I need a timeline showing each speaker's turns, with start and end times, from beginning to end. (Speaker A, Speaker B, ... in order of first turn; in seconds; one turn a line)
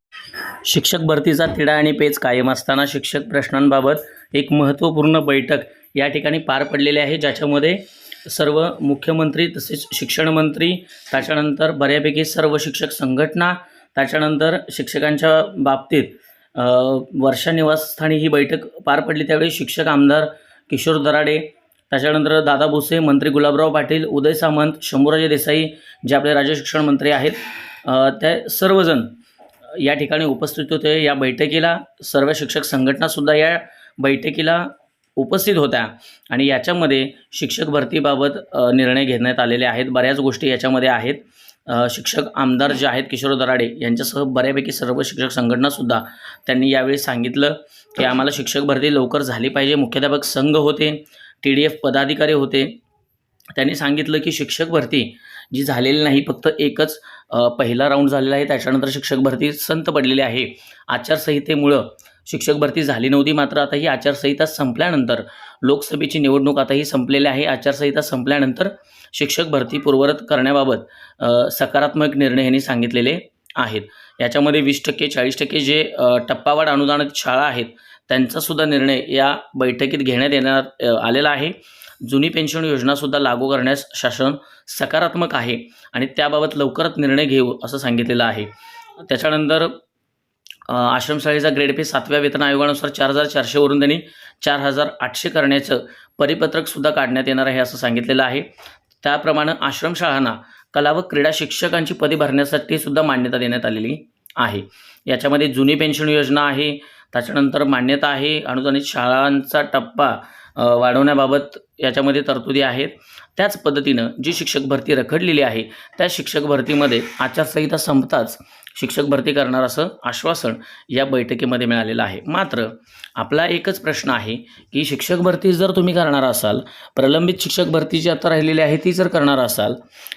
Speaker A: 0.6-29.1
Speaker A: 29.8-52.8
Speaker A: 53.5-88.5
Speaker A: 89.0-89.8
Speaker A: 90.7-98.5
Speaker A: 99.0-129.8